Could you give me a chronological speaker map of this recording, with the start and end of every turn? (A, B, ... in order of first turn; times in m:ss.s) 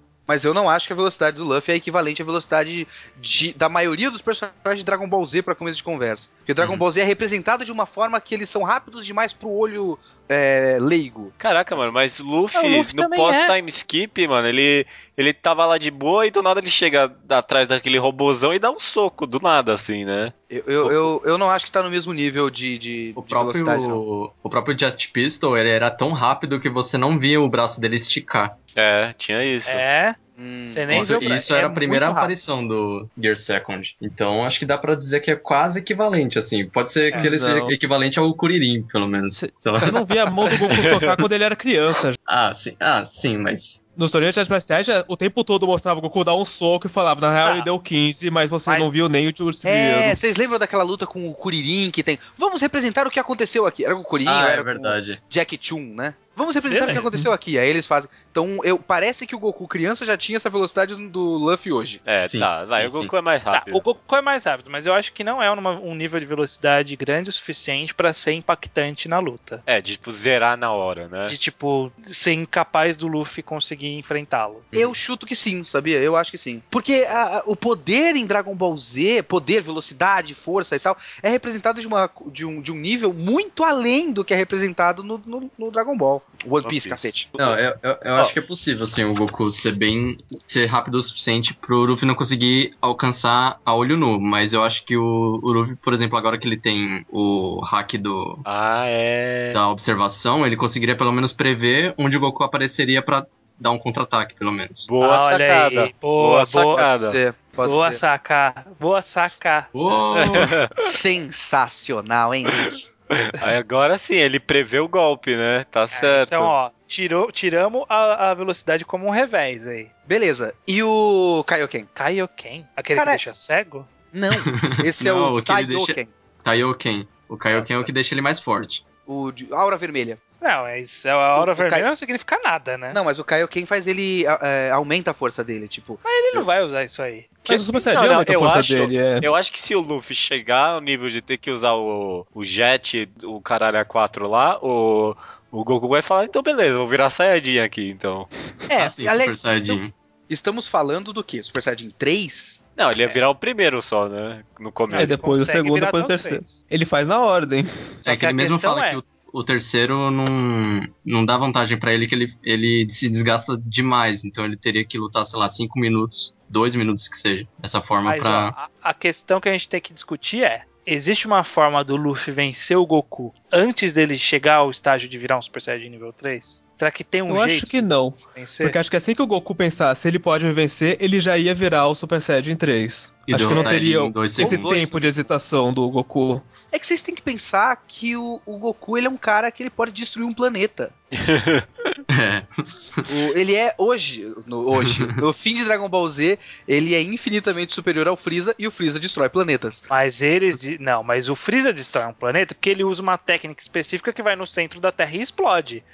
0:00.3-0:11.9 A
0:06.6-0:06.8 B
0:11.4-0:20.3 C
0:12.6-0:13.6 D
0:20.5-0:24.0 A
0:20.8-0:21.1 B
0:23.2-0:28.6 B
0:28.8-0:29.8 C
0:29.7-0:32.3 D
0:30.4-0:31.3 A
0:30.9-0:40.1 B
0:37.2-0:37.7 E
0:39.4-0:42.2 E
0:40.7-0:41.2 C
0:42.3-0:43.8 B
0:44.0-0:50.2 E
0:47.4-0:47.7 D
0:49.6-1:02.0 A
0:54.2-0:55.2 B
0:56.7-0:57.0 D
1:02.0-1:03.8 C
1:02.3-1:03.1 B
1:03.5-1:09.6 D
1:09.7-1:11.4 C
1:11.3-1:14.7 D
1:14.8-1:27.3 A
1:26.6-1:27.6 C
1:27.4-1:38.4 B
1:38.5-1:39.6 C
1:39.5-1:44.9 B
1:44.9-1:47.2 C
1:45.0-1:46.8 D
1:46.7-1:48.0 A
1:47.6-1:49.7 D
1:49.7-1:50.6 B
1:50.2-1:50.8 C
1:50.8-1:52.9 A
1:52.5-1:56.5 C
1:55.9-1:59.9 D
2:00.1-2:01.9 A
2:02.0-2:03.9 D
2:02.9-2:03.2 A
2:04.1-2:06.1 A
2:04.3-2:08.8 B
2:07.6-2:07.9 A
2:09.1-2:10.2 A
2:10.4-2:13.0 D
2:11.4-2:11.9 A
2:12.9-2:16.0 A
2:16.0-2:18.3 D
2:17.5-2:19.3 E
2:17.8-2:28.3 C
2:28.7-2:32.6 A
2:28.8-2:29.9 B
2:32.8-2:35.2 C
2:34.9-2:36.5 D
2:34.9-2:37.7 E
2:38.0-2:39.0 D
2:38.0-2:48.6 B
2:48.0-2:58.8 D
2:57.3-3:06.5 E
3:03.3-3:04.7 B
3:03.5-3:03.8 A
3:04.4-3:05.3 A
3:06.7-3:10.9 A
3:11.1-3:11.7 C
3:12.1-3:13.1 B
3:13.1-3:19.8 A
3:14.8-3:15.2 B
3:19.9-3:25.8 D